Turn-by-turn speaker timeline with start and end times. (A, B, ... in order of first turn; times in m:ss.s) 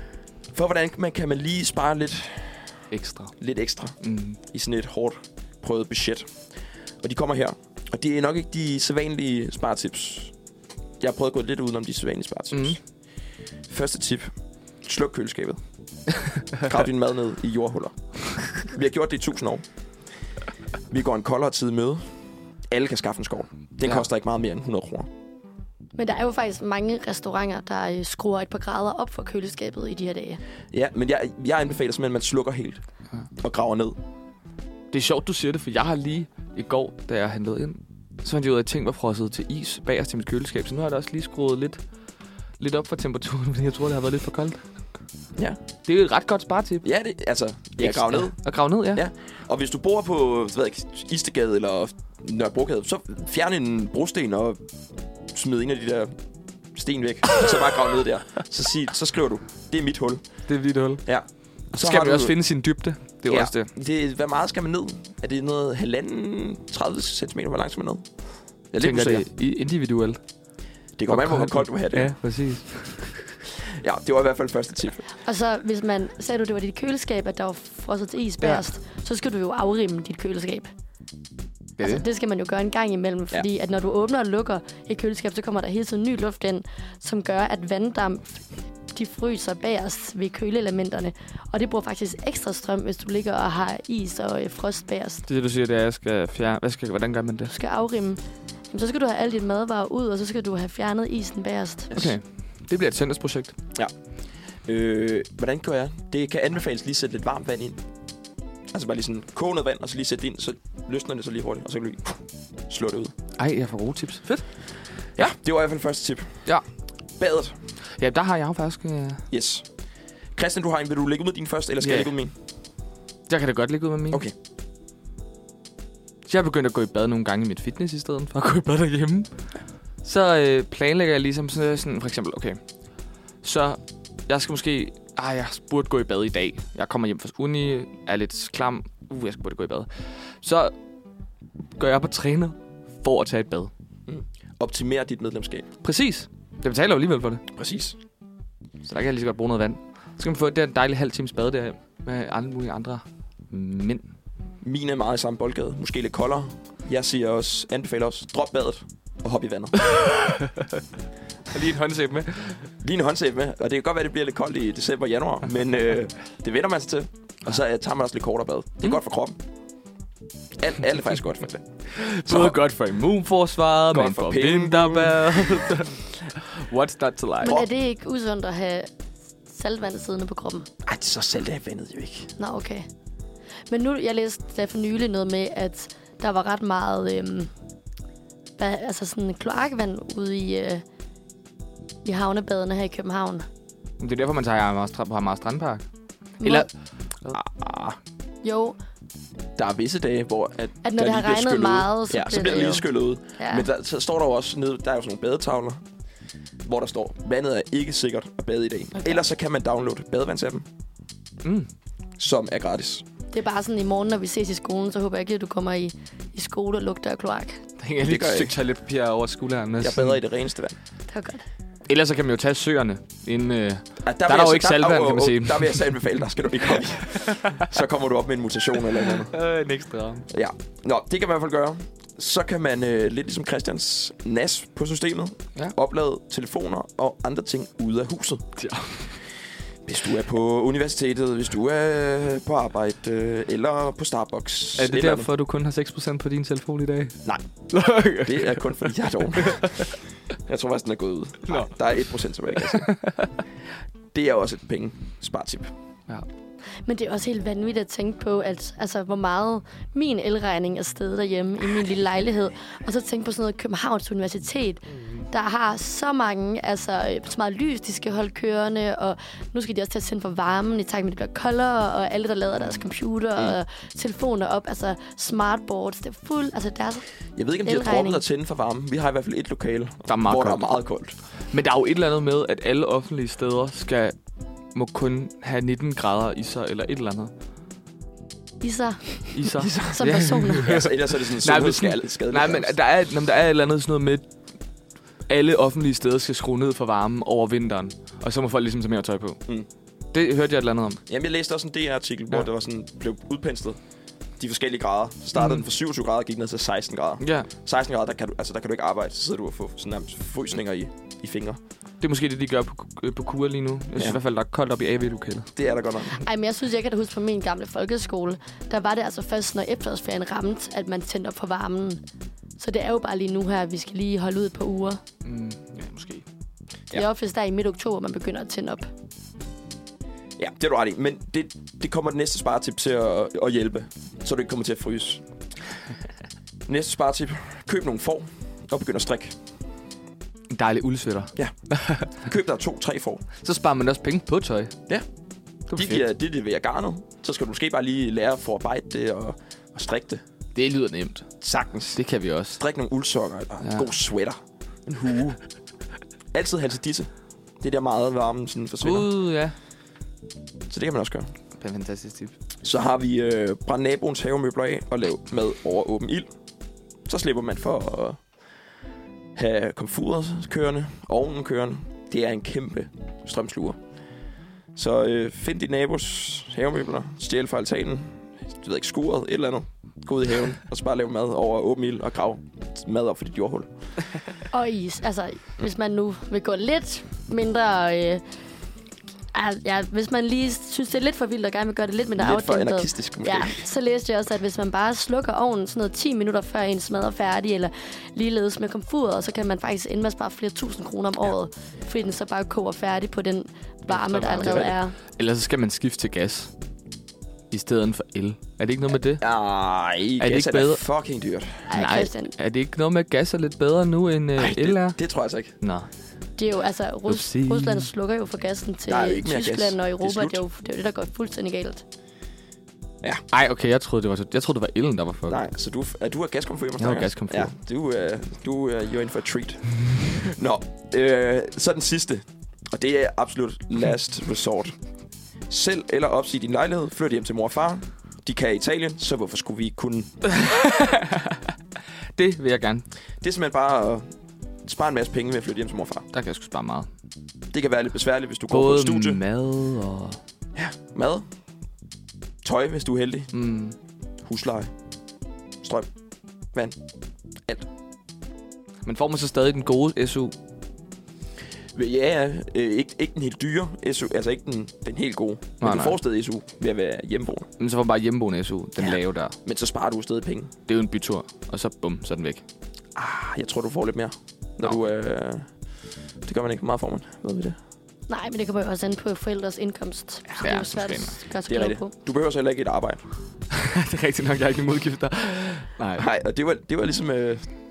0:00.5-0:02.9 A
0:02.9-0:03.4 B
0:03.4-0:06.4 A
0:04.0-0:04.4 B
0:07.0-0:10.3 A
0:11.0-0:12.8 A
0:13.7-0:14.3 A
0:14.8-0:15.6 A
0:16.6-0:19.6 A
0:20.9-0:22.1 A
0:22.7-0:25.1 A
0:26.0-0:30.4 C
0:30.7-0:32.8 A
0:33.4-0:34.0 A
0:34.9-0:41.8 B
0:42.6-0:44.6 B
0:45.9-0:46.8 B
0:46.8-0:48.4 A
0:47.8-0:49.0 B
0:48.9-0:54.6 A
0:55.3-0:56.1 A
0:56.7-1:00.4 A
1:00.5-1:01.0 B
1:01.1-1:02.4 A
1:01.7-1:03.7 B
1:03.3-1:08.1 A
1:08.7-1:09.3 A
1:08.8-1:10.2 B
1:11.0-1:12.1 A
1:11.1-1:13.2 B
1:13.6-1:15.0 A
1:15.2-1:20.7 C
1:21.8-1:22.0 B
1:21.8-1:35.2 C
1:35.3-1:37.5 B
1:37.5-1:41.9 C
1:41.9-1:42.2 A
1:41.9-1:43.6 B
1:44.6-1:47.8 A
1:48.7-1:53.1 A
1:53.4-1:54.6 B
1:55.2-1:56.5 A
1:57.2-1:57.6 A
1:58.0-1:59.2 B
1:59.3-1:59.7 A
2:00.4-2:02.3 A
2:01.8-2:02.1 B
2:03.3-2:04.2 B
2:06.3-2:09.3 B
2:10.0-2:12.6 B
2:13.4-2:20.8 B
2:21.8-2:23.7 B
2:24.1-2:25.7 A
2:25.8-2:27.4 B
2:27.5-2:28.0 A
2:28.8-2:34.1 B
2:34.6-2:40.0 A
2:39.9-2:40.7 B
2:41.5-2:42.7 B
2:42.8-2:49.4 A
2:50.6-2:52.6 A
2:51.9-2:57.6 B
2:53.9-2:55.7 A
2:57.4-2:58.9 C
2:59.5-3:00.7 C
3:00.8-3:02.3 A
3:02.4-3:02.9 C
3:03.7-3:07.5 C
3:08.6-3:10.8 C
3:12.0-3:13.5 C
3:14.0-3:15.8 B
3:16.4-3:16.7 C
3:16.4-3:16.7 B
3:17.3-3:18.0 A
3:18.4-3:18.8 C
3:19.6-3:25.8 A
3:20.8-3:22.9 C
3:23.4-3:23.7 C
3:26.6-3:30.7 A
3:31.4-3:31.7 B
3:32.2-3:33.0 A
3:33.3-3:37.6 C
3:37.8-3:40.2 B
3:38.0-3:38.5 A
3:39.8-3:40.8 A
3:41.1-3:41.4 C
3:41.9-3:45.9 B
3:44.0-3:49.3 A
3:47.2-3:47.6 B
3:49.3-3:50.3 B
3:50.3-3:58.5 A
3:58.6-3:59.2 B
3:59.8-4:05.3 A
4:04.8-4:09.9 B
4:08.2-4:12.9 A
4:11.5-4:11.7 B
4:12.6-4:13.4 B
4:14.1-4:15.7 A
4:16.8-4:37.1 C
4:37.4-4:41.2 A
4:37.6-4:38.2 C
4:40.1-4:40.7 B
4:41.5-4:44.2 B
4:44.7-4:47.3 B
4:48.6-4:49.4 C
4:49.3-4:54.3 B
4:49.6-4:52.8 A
4:49.9-4:50.8 C
4:55.3-4:59.4 B
5:00.1-5:01.0 B
5:01.1-5:03.8 A
5:04.4-5:11.6 A
5:05.4-5:05.6 B
5:07.2-5:07.5 B
5:12.0-5:15.5 B
5:15.6-5:16.2 A
5:16.1-5:22.0 C
5:22.6-5:25.0 C
5:25.2-5:26.3 B
5:26.9-5:28.9 C
5:30.4-5:35.2 A
5:36.7-5:39.4 A
5:40.5-5:42.1 B
5:41.4-5:43.2 A
5:43.4-5:44.8 B
5:45.7-5:46.0 B
5:45.7-5:50.2 A
5:50.6-5:51.3 B
5:51.4-5:52.0 A
5:51.9-5:52.6 B
5:52.6-5:55.4 A
5:56.3-5:59.1 A
5:58.8-5:59.6 B
6:00.7-6:01.3 A
6:01.6-6:02.4 B
6:02.6-6:06.3 A
6:07.1-6:08.3 A
6:09.4-6:13.8 A
6:14.8-6:23.7 A
6:24.5-6:28.2 C
6:29.3-6:45.0 C
6:32.2-6:33.6 A
6:43.9-6:46.5 B
6:44.4-6:44.7 A
6:47.5-6:49.2 B
6:49.2-6:51.7 A
6:50.2-6:50.8 B
6:51.7-6:52.3 C
6:51.7-6:55.0 B
6:54.4-6:55.5 A
6:55.6-6:55.9 B
6:56.4-7:01.8 C
6:57.1-6:57.9 B
6:58.9-7:00.4 A
7:03.3-7:05.4 B
7:05.3-7:14.8 A
7:06.8-7:07.5 B
7:15.5-7:20.2 A
7:20.3-7:21.5 B
7:22.2-7:22.9 B
7:23.2-7:24.1 A
7:24.6-7:26.1 A
7:26.1-7:26.9 B
7:27.5-7:29.2 A
7:28.5-7:30.2 B
7:30.6-7:31.3 A
7:32.4-7:33.3 A
7:33.3-7:33.8 B
7:34.2-7:34.7 A
7:35.6-7:35.9 A
7:36.5-7:36.8 A
7:38.8-7:40.3 B
7:41.7-7:47.5 A
7:45.6-7:46.0 B
7:47.6-7:49.4 B
7:48.8-7:50.5 A
7:50.7-7:52.4 B
7:53.0-7:55.5 A
7:56.2-7:57.6 A
7:58.1-8:01.9 C
8:00.4-8:01.2 B
8:01.5-8:03.0 A
8:03.5-8:06.0 B
8:06.0-8:07.5 A